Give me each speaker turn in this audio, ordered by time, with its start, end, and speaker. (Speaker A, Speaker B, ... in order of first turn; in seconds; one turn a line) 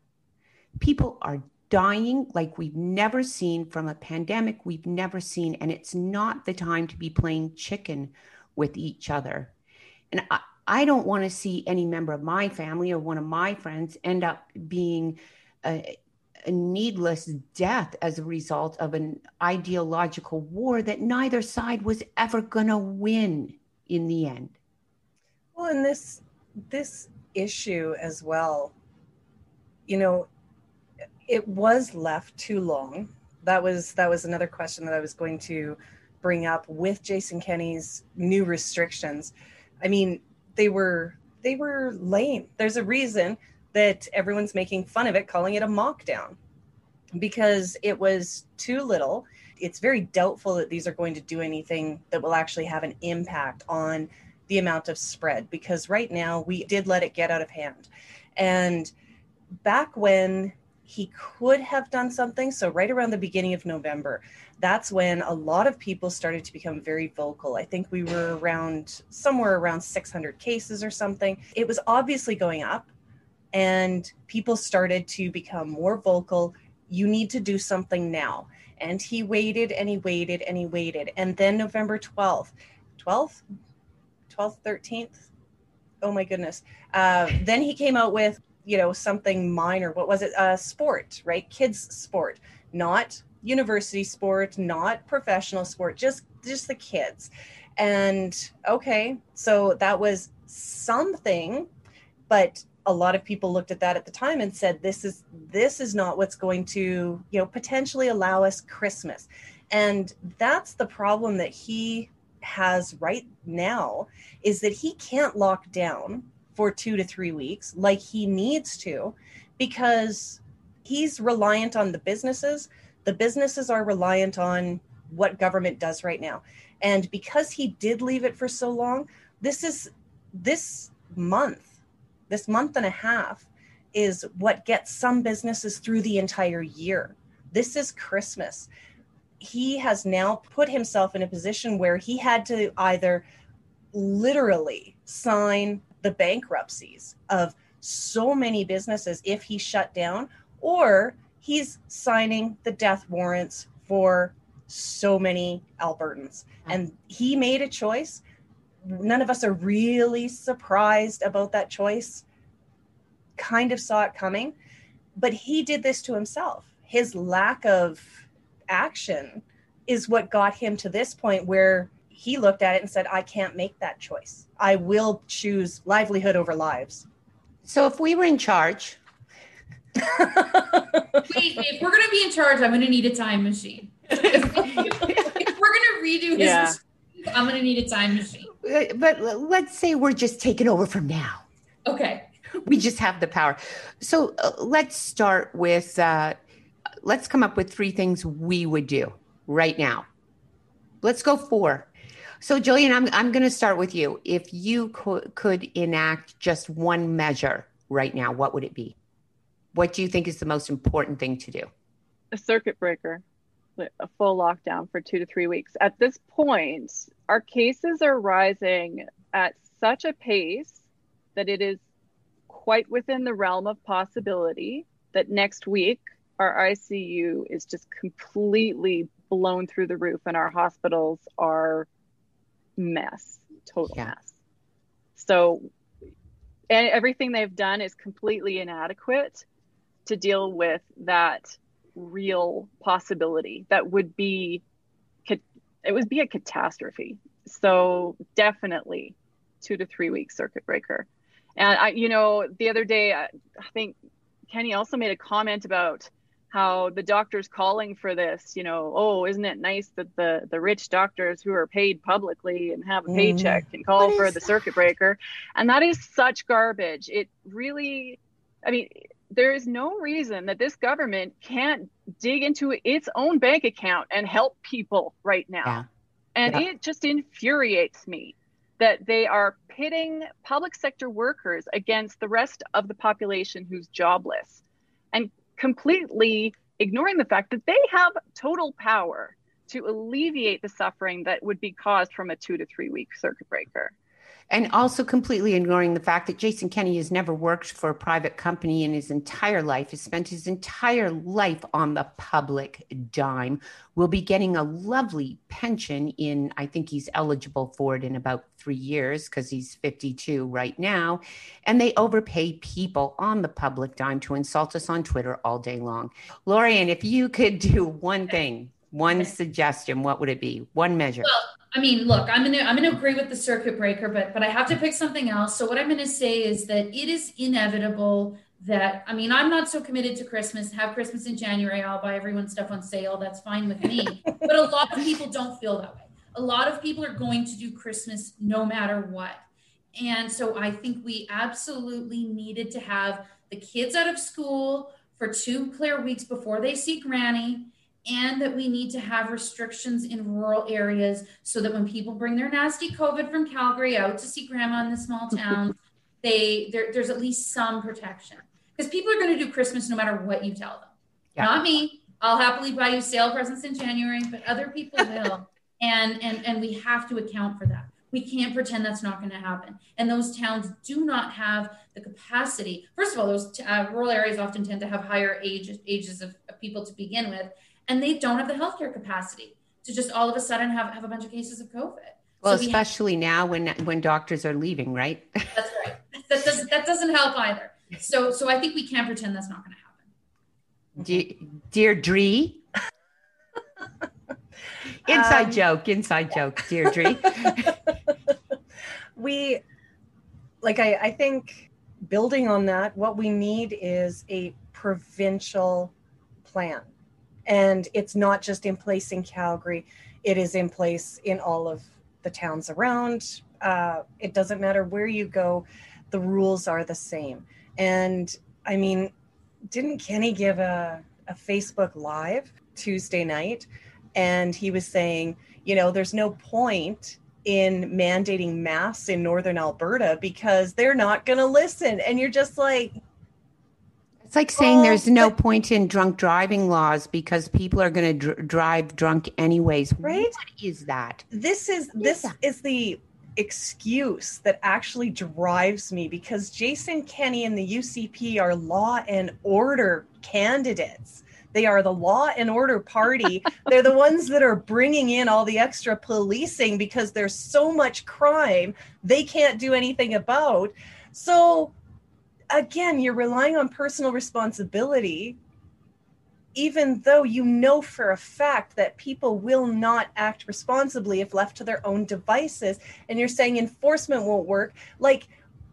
Speaker A: 0.8-9.5
Speaker A: 10.1-24.6
Speaker B: 25.6-28.7
Speaker B: 29.9-30.3
Speaker B: 31.3-46.4
Speaker B: 47.1-58.9
Speaker B: 59.6-72.9
Speaker B: 73.5-83.4
Speaker B: 84.3-85.3
Speaker B: 86.0-101.7
Speaker B: 102.3-131.8
Speaker B: 132.3-138.7
Speaker B: 139.4-143.2
Speaker B: 143.9-158.2
Speaker B: 158.8-162.2
Speaker B: 163.4-164.5
Speaker B: 165.2-177.1
Speaker A: 177.6-179.0
Speaker B: 180.0-181.2
Speaker C: 181.2-188.5
Speaker A: 184.1-185.4
Speaker D: 186.3-186.8
Speaker A: 188.5-191.4
Speaker C: 191.8-192.3
Speaker A: 192.6-196.4
Speaker A: 197.0-200.1
Speaker A: 201.0-201.9
Speaker A: 202.4-208.9
Speaker A: 209.7-211.7
Speaker D: 212.3-213.2
Speaker D: 213.8-221.8
Speaker D: 222.5-231.9
Speaker D: 232.8-234.4
Speaker D: 235.1-235.7
Speaker D: 236.7-239.4
Speaker D: 240.1-244.6
Speaker D: 245.2-253.9
Speaker D: 254.5-275.8
Speaker B: 263.1-263.6
Speaker D: 276.4-284.6
Speaker D: 285.1-293.9
Speaker A: 294.5-321.3
Speaker C: 321.2-339.4
Speaker C: 339.9-382.8
Speaker A: 382.4-385.6
Speaker C: 385.5-390.1
Speaker A: 391.0-392.6
Speaker A: 395.0-397.8
Speaker B: 395.1-395.6
Speaker B: 397.4-397.7
Speaker B: 399.1-399.6
Speaker B: 400.6-405.9
Speaker B: 406.4-406.9
Speaker B: 407.5-419.1
Speaker B: 419.7-432.9
Speaker A: 434.2-441.2
Speaker B: 434.6-435.3
Speaker B: 440.0-440.3
Speaker B: 441.3-461.7
Speaker A: 442.0-442.3
Speaker B: 462.5-465.4
Speaker B: 466.5-475.3